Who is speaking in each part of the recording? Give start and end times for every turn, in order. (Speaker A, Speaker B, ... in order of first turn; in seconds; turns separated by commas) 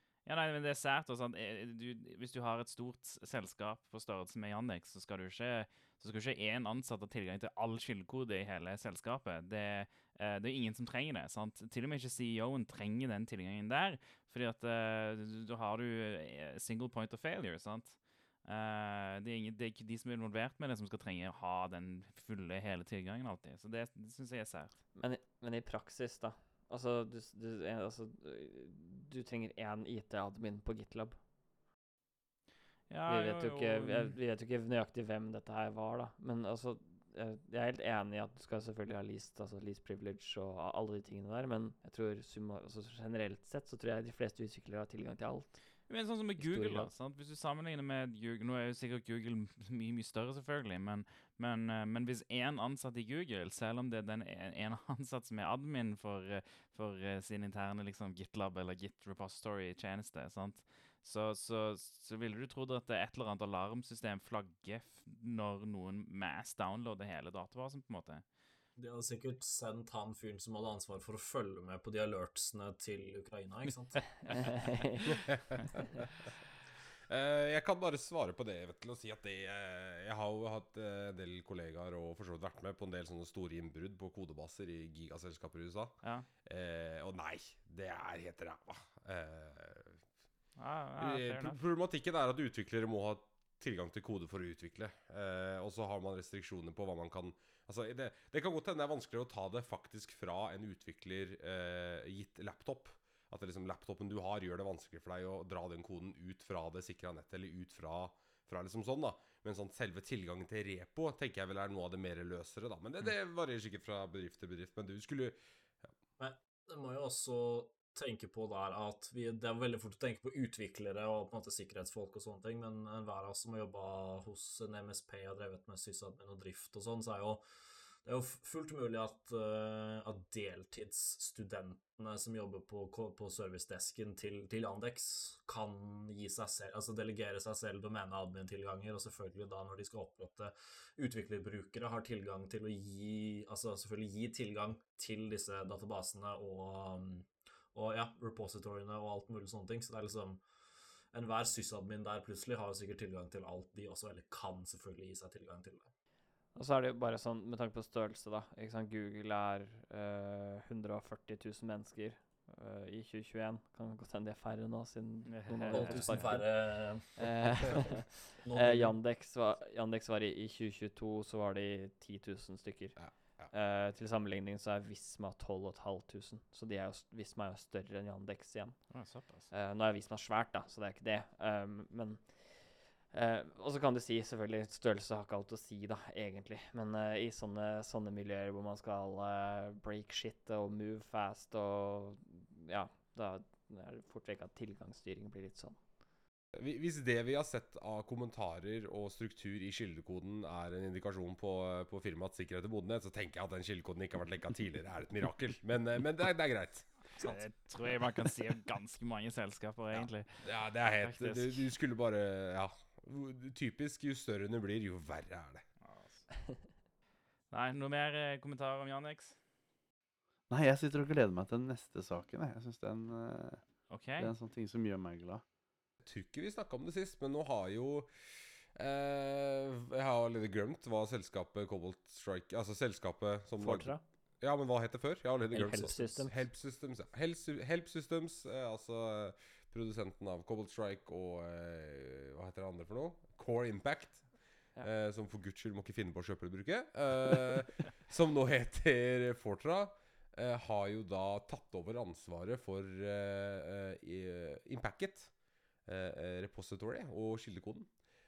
Speaker A: 0.2-24.8, Speaker B: 24.9-31.2, Speaker A: 32.9-34.1, Speaker B: 33.1-45.6, Speaker A: 45.9-68.2, Speaker B: 46.4-46.9, Speaker C: 68.8-74.7, Speaker B: 74.4-75.0, Speaker D: 75.2-75.9, Speaker D: 77.1-90.0, Speaker A: 90.6-91.6, Speaker D: 91.0-115.3, Speaker C: 116.2-127.4, Speaker C: 128.0-150.4, Speaker C: 151.1-155.9, Speaker B: 156.5-166.5, Speaker A: 165.3-166.3, Speaker C: 165.7-169.0, Speaker B: 167.2-173.0, Speaker D: 173.0-173.5, Speaker B: 173.5-178.8, Speaker A: 178.9-179.5, Speaker B: 179.5-182.4, Speaker B: 183.1-195.8, Speaker D: 196.6-206.9, Speaker C: 207.2-207.4, Speaker A: 207.2-210.4, Speaker D: 210.4-215.6, Speaker A: 211.0-211.7, Speaker A: 215.8-216.2, Speaker A: 217.5-219.4, Speaker E: 220.5-223.6, Speaker A: 223.9-224.3, Speaker E: 224.2-225.4, Speaker D: 226.0-228.1, Speaker D: 228.8-244.2, Speaker B: 233.6-234.0, Speaker B: 235.5-236.4, Speaker D: 244.8-255.3, Speaker D: 255.9-257.9